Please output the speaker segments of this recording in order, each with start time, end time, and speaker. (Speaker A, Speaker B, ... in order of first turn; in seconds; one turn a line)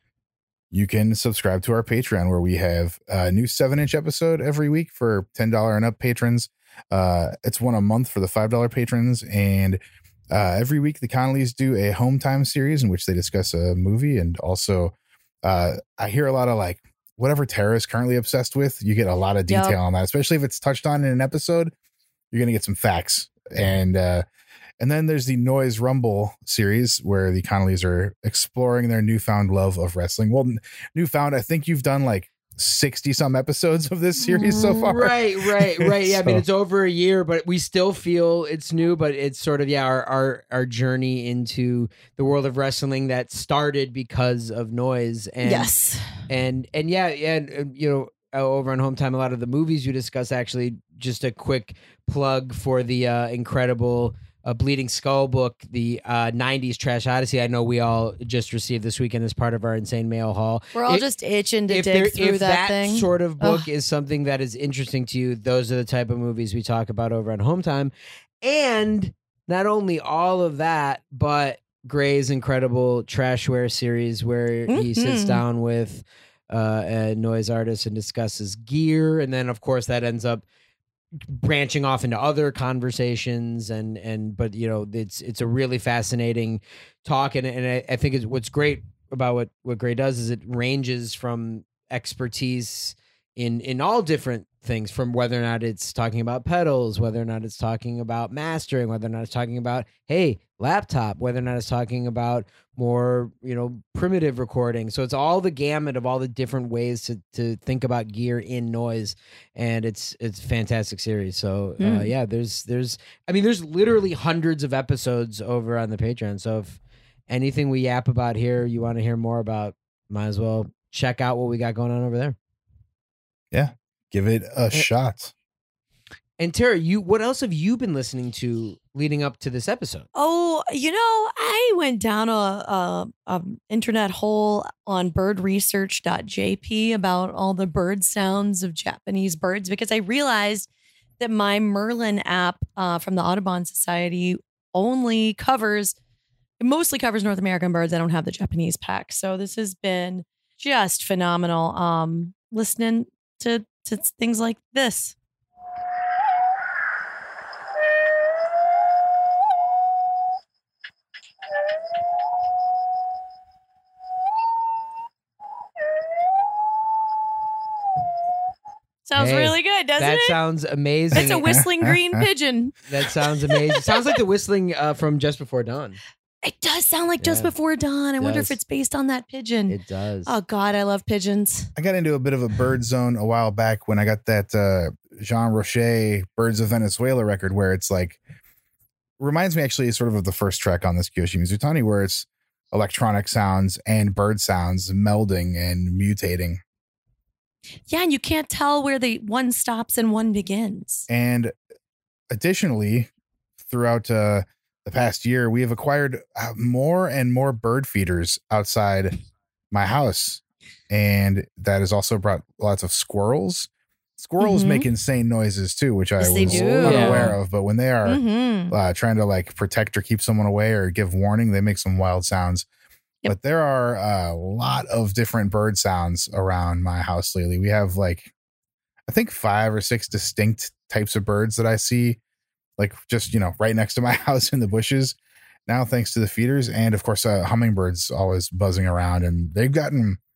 Speaker A: 0.7-9.8
Speaker A: 10.3-21.7
Speaker B: 19.5-19.8
Speaker A: 22.3-24.2
Speaker A: 24.8-36.4
Speaker C: 34.4-45.7
Speaker B: 45.4-46.2
Speaker C: 46.3-61.0
Speaker B: 60.8-63.7
Speaker C: 61.7-67.9
Speaker C: 68.4-80.4
Speaker B: 74.7-75.4
Speaker C: 81.2-122.4
Speaker B: 111.8-112.1
Speaker A: 123.5-125.3
Speaker C: 126.4-130.1
Speaker B: 130.2-140.7
Speaker B: 141.2-146.0
Speaker B: 146.6-155.2
Speaker B: 169.1-170.4
Speaker C: 169.2-171.5
Speaker B: 171.1-172.8
Speaker A: 171.5-172.2
Speaker C: 172.9-176.0
Speaker B: 173.5-174.0
Speaker B: 176.4-181.7
Speaker C: 177.2-177.5
Speaker C: 178.2-178.6
Speaker C: 179.7-180.3
Speaker A: 181.8-188.2
Speaker A: 189.2-196.6
Speaker B: 197.9-201.1
Speaker A: 201.1-201.5
Speaker A: 202.3-203.1
Speaker A: 203.6-209.2
Speaker A: 209.7-222.7
Speaker B: 214.4-214.9
Speaker B: 216.2-217.4
Speaker C: 216.4-217.3
Speaker B: 218.1-218.8
Speaker A: 223.3-228.3
Speaker A: 229.1-232.2
Speaker A: 232.8-235.2
Speaker A: 235.7-240.2